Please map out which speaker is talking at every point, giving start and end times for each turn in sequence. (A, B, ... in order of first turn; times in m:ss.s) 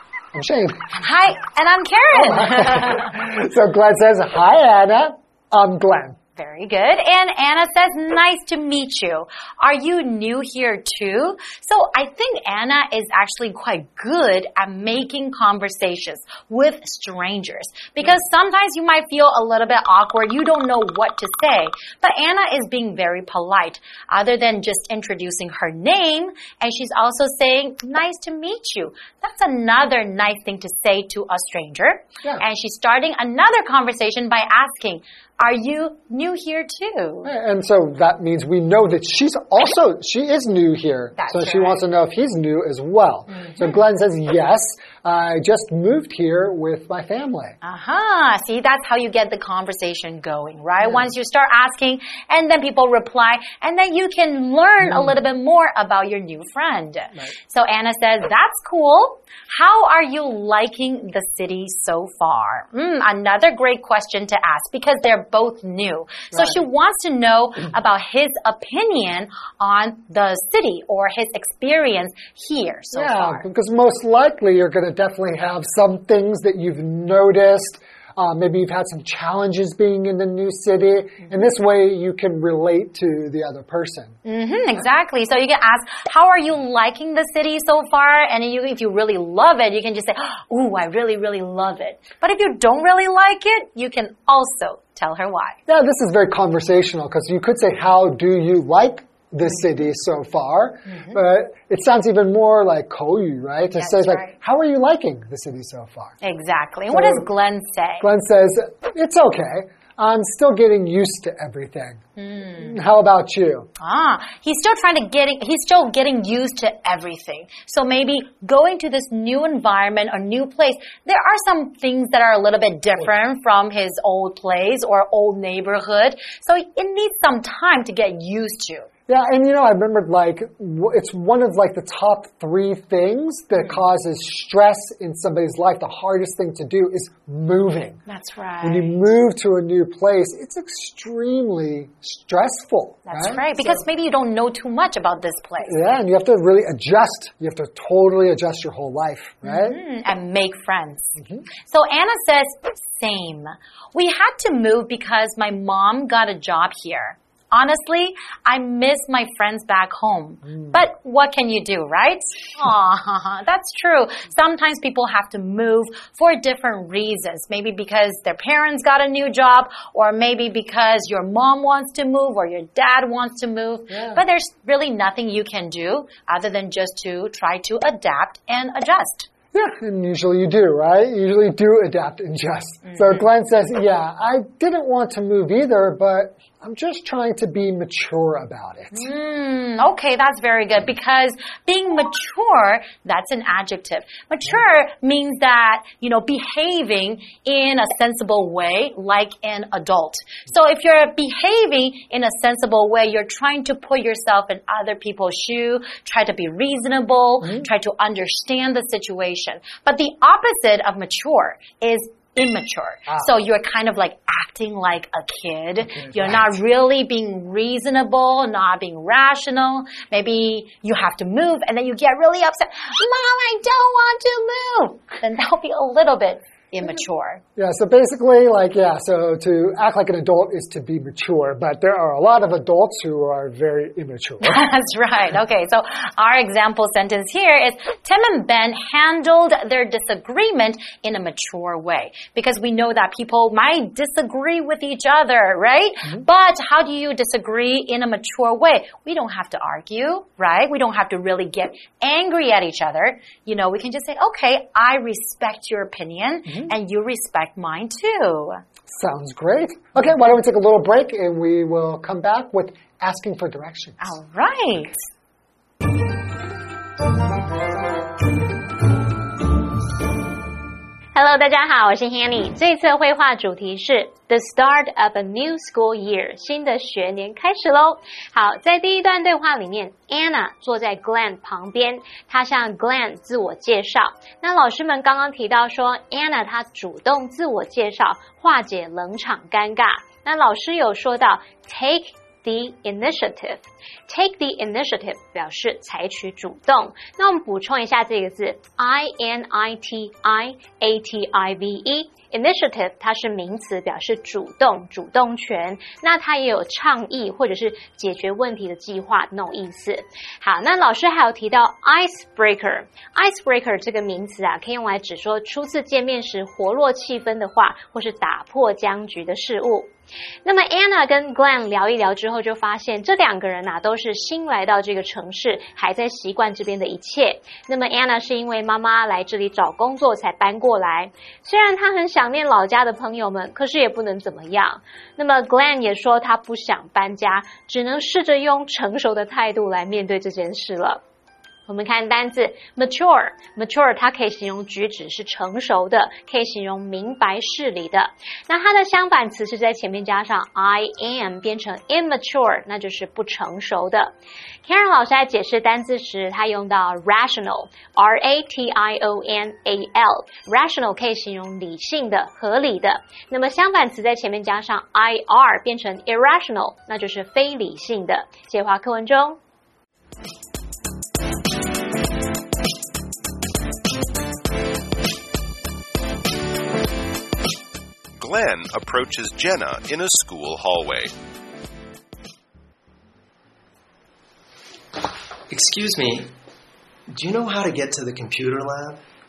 0:00.3-0:00.9 A
0:00.9-0:03.1 B
0:02.2-0:06.2 A
0:06.4-0:37.3 B
0:37.2-0:47.6 A
0:41.2-0:41.8 B
0:43.3-0:43.6 B
0:47.6-1:13.5 B
0:54.8-0:55.1 A
1:12.9-1:24.2 A
1:24.2-1:35.6 B
1:35.7-1:46.2 A
1:40.9-1:41.2 B
1:43.8-1:44.4 B
1:46.2-1:48.1 B
1:46.9-1:47.3 A
1:48.0-1:53.7 A
1:52.2-1:52.7 B
1:53.8-2:08.9 B
2:09.1-2:18.0 A
2:18.1-2:19.0 B
2:18.6-2:23.8 A
2:23.1-2:25.8 B
2:25.6-2:29.8 A
2:29.4-2:59.3 B
2:31.2-2:31.5 A
2:53.9-2:54.2 A
2:59.5-3:09.1 A
3:02.9-3:03.2 B
3:08.9-3:47.4 B
3:27.4-3:27.7 A
3:36.0-3:36.5 A
3:47.6-3:54.6 A
3:54.4-4:18.6 B
4:16.5-4:16.7 A
4:18.9-4:24.2 A
4:24.0-4:25.0 B
4:31.1-5:19.9 C
5:20.4-5:41.0 C
5:41.7-5:54.1 C
5:54.6-6:09.4 C
6:18.2-6:21.1 D
6:25.5-6:26.3 E
6:27.1-6:29.0 E